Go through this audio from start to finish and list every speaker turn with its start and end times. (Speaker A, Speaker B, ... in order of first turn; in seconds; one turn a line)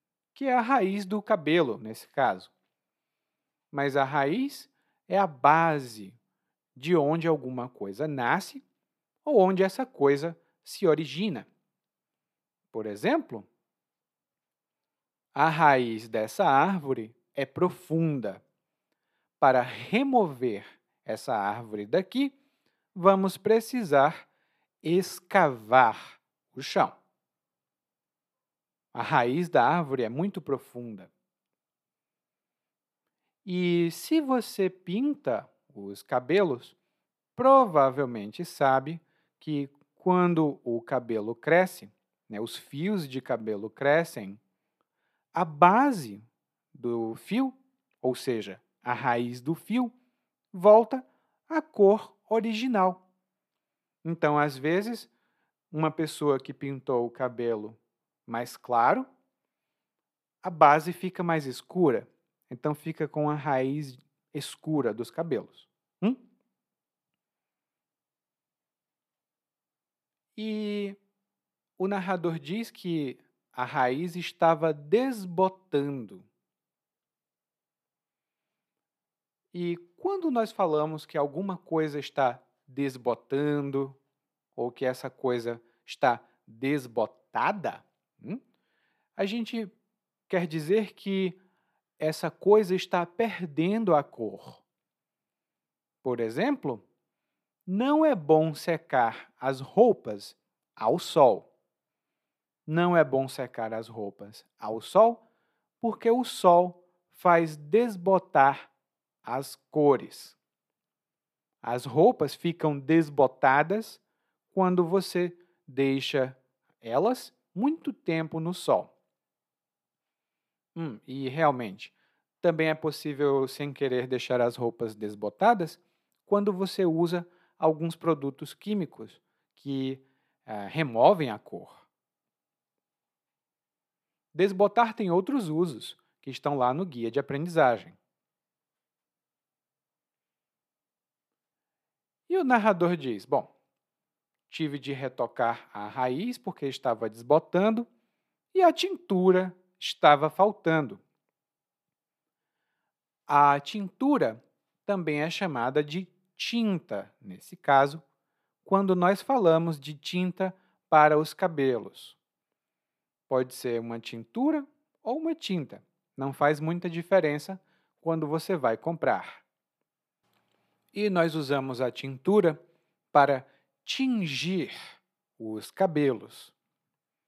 Speaker A: 0.3-2.5
Speaker A: 3.7-6.2
Speaker A: 6.8-8.6
Speaker A: 9.2-11.5
Speaker A: 12.7-13.4
Speaker A: 15.3-18.4
Speaker A: 19.4-22.4
Speaker A: 22.9-24.2
Speaker A: 24.8-26.9
Speaker A: 28.9-31.1
Speaker A: 33.4-36.8
Speaker A: 37.4-44.4
Speaker A: 45.3-49.9
Speaker A: 50.5-53.0
Speaker A: 54.0-55.1
Speaker A: 55.7-59.1
Speaker A: 60.4-66.2
Speaker A: 70.3-71.0
Speaker A: 71.8-76.2
Speaker A: 79.5-84.0
Speaker A: 84.5-88.4
Speaker A: 89.2-89.7
Speaker A: 90.3-91.4
Speaker A: 92.0-94.6
Speaker A: 96.0-96.8
Speaker A: 97.7-101.5
Speaker A: 102.7-105.2
Speaker A: 105.8-108.7
Speaker A: 109.2-110.3
Speaker A: 111.6-114.0
Speaker A: 114.5-118.9
Speaker A: 120.7-131.8
Speaker A: 134.3-138.0
Speaker A: 142.3-143.5
Speaker A: 144.5-147.9
Speaker A: 148.5-151.0
Speaker A: 153.3-158.0
Speaker A: 158.6-162.2
Speaker A: 163.3-169.4
Speaker A: 170.9-172.6
Speaker A: 173.1-174.8
Speaker A: 175.4-176.5